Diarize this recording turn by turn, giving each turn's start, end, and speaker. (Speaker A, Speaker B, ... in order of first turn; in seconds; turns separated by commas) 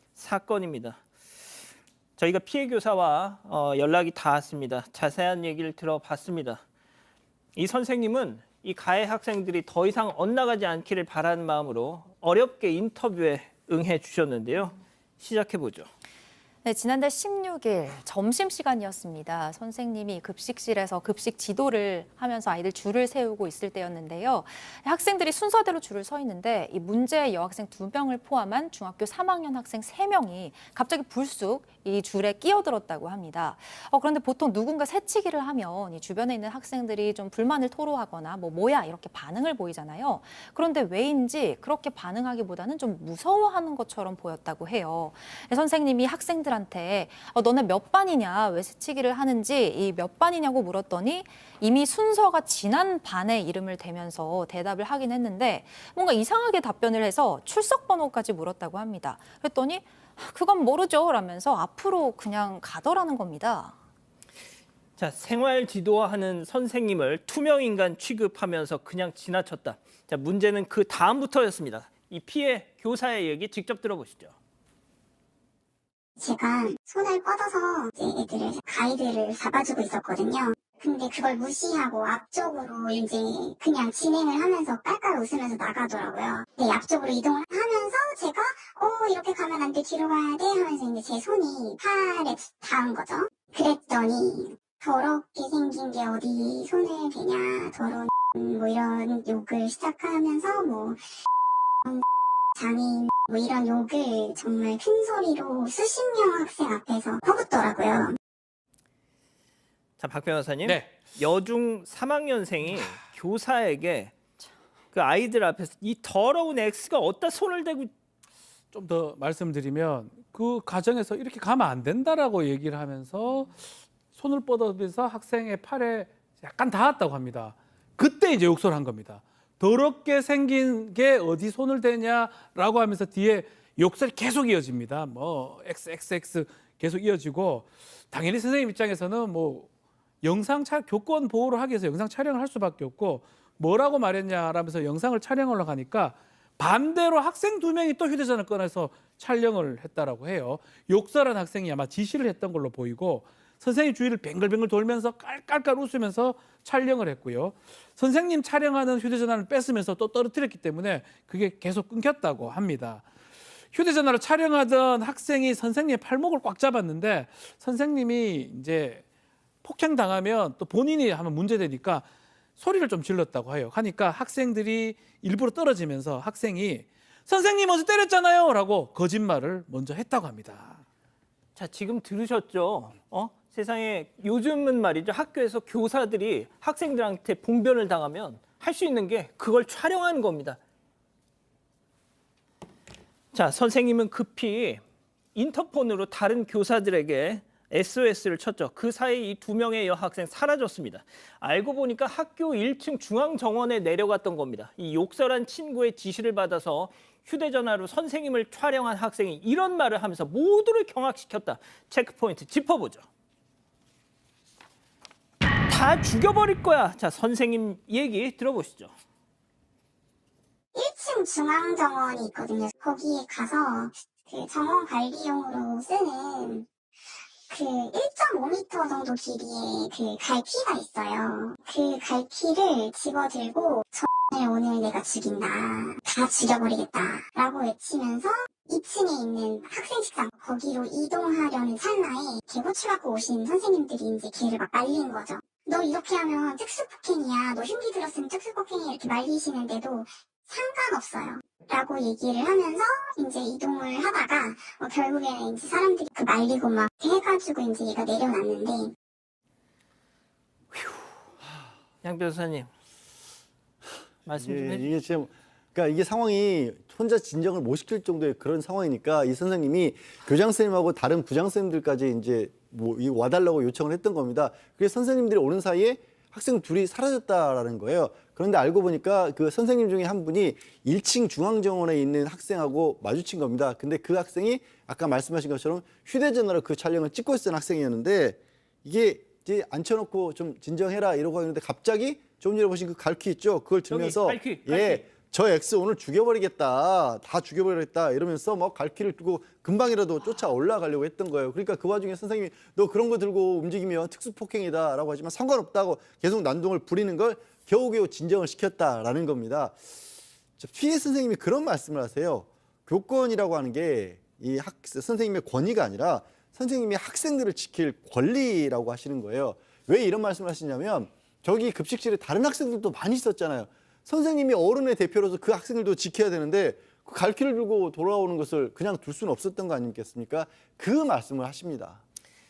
Speaker A: 0.2-1.0, Speaker A: 2.2-6.6, Speaker A: 7.6-15.9, Speaker B: 16.6-63.7, Speaker A: 65.0-74.3, Speaker C: 76.2-101.0, Speaker C: 102.6-108.2, Speaker A: 110.0-114.1, Speaker D: 110.6-110.9, Speaker A: 114.9-117.9, Speaker D: 118.7-139.7, Speaker D: 140.2-163.1, Speaker D: 163.7-169.0, Speaker D: 169.6-172.1, Speaker D: 172.6-180.8, Speaker A: 181.6-190.6, Speaker A: 193.3-194.8, Speaker A: 195.3-213.1, Speaker A: 215.7-218.9, Speaker C: 220.7-226.7, Speaker C: 227.5-258.9, Speaker A: 260.7-261.0, Speaker A: 262.0-262.7, Speaker A: 264.3-264.9, Speaker E: 264.4-309.8, Speaker A: 293.9-295.1, Speaker E: 310.6-332.0